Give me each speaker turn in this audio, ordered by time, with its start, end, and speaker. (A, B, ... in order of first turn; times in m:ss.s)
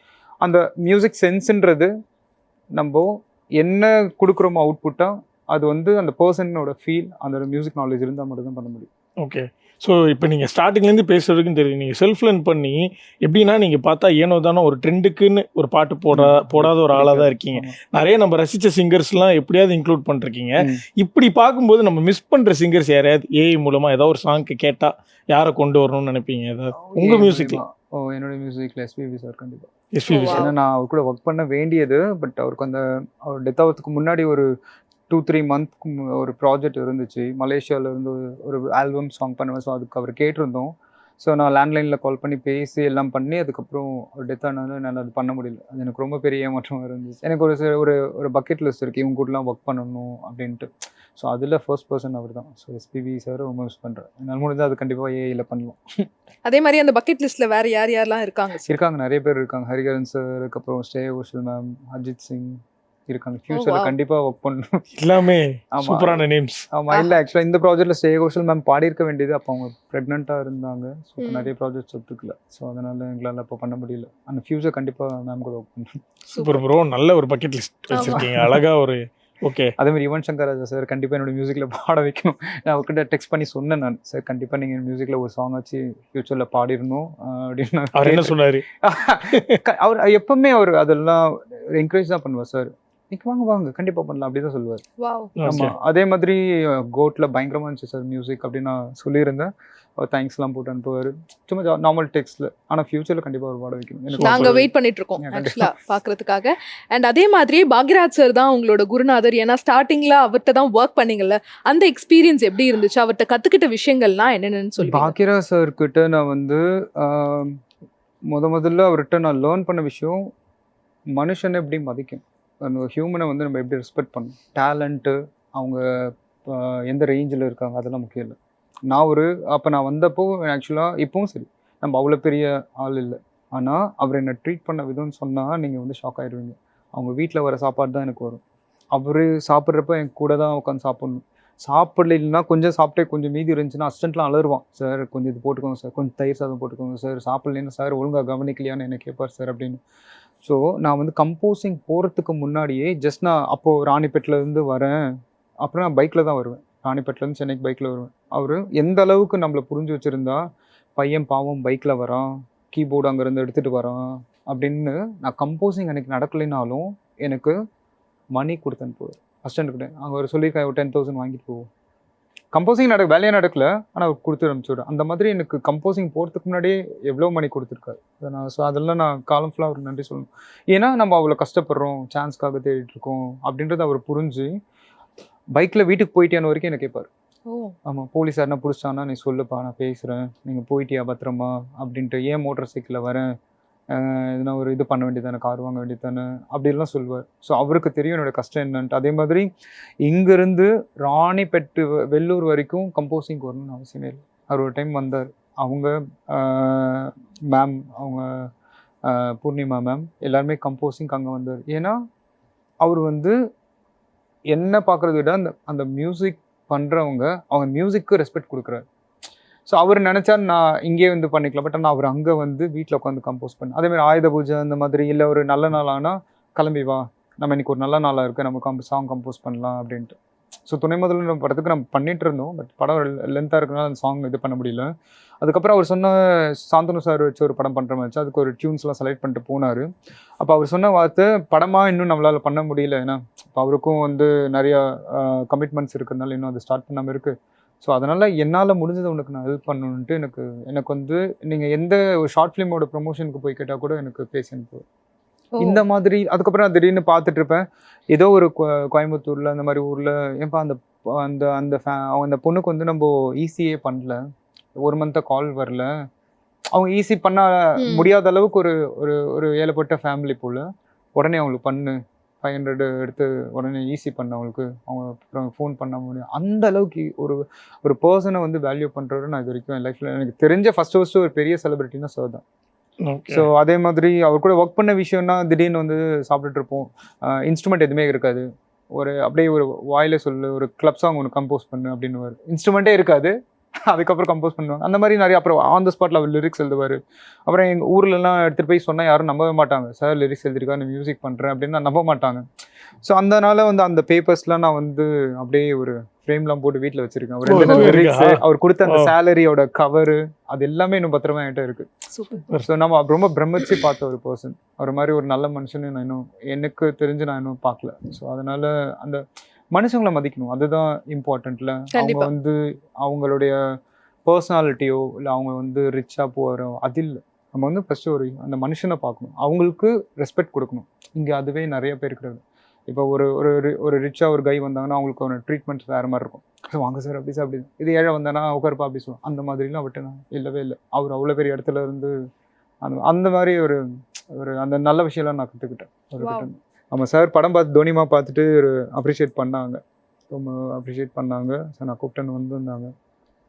0:00.4-0:01.9 A
0:02.7-0:08.9 A
0:09.2-0:27.6 B
0:16.1-0:17.8 A
0:26.9-0:34.5 A
0:29.9-0:30.5 B
0:30.1-0:30.5 C
0:35.1-0:56.1 A
0:56.4-0:58.7 C
0:58.6-1:04.8 A
1:03.5-1:03.9 C
1:05.0-1:06.6 B
1:05.7-1:16.0 A
1:11.2-1:11.5 C
1:16.3-1:16.6 C
1:16.4-1:19.7 B
1:17.9-1:18.2 C
1:17.9-1:18.6 A
1:19.8-1:34.8 A
1:27.9-1:28.6 B
1:29.3-1:29.6 B
1:35.0-1:35.3 C
1:35.4-1:35.7 B
1:35.4-1:44.7 A
1:44.1-1:44.6 B
1:44.2-1:55.1 C
1:45.2-1:45.7 A
1:54.8-1:57.6 A
1:58.3-2:00.2 A
2:01.1-2:08.4 A
2:08.9-2:18.4 A
2:18.9-2:29.8 A
2:30.4-2:35.0 A
2:35.6-2:40.4 A
2:41.0-2:47.5 A
2:48.3-2:51.7 A
2:52.5-3:04.5 A
3:05.5-3:07.1 A
3:07.5-3:07.7 C
3:07.8-3:13.3 A
3:13.9-3:19.5 A
3:20.0-3:28.5 A
3:29.0-3:32.0 A
3:32.8-3:33.4 A
3:34.5-3:38.8 A
3:39.6-3:50.2 A
3:50.7-3:54.9 A
3:55.4-3:59.8 A
4:00.4-4:14.8 A
4:15.6-4:24.2 A
4:24.8-4:25.9 A
4:26.7-4:30.6 A
4:27.8-4:28.1 C
4:31.2-4:42.4 A
4:43.0-4:43.5 B
4:43.3-5:02.4 A
5:03.0-5:11.9 A
5:07.5-5:09.1 B
5:07.6-5:07.9 C
5:12.1-5:12.4 C
5:12.6-5:23.6 A
5:21.9-5:22.3 C
5:24.2-5:42.1 A
5:42.8-5:49.8 A
5:46.2-5:46.5 C
5:50.3-5:52.9 A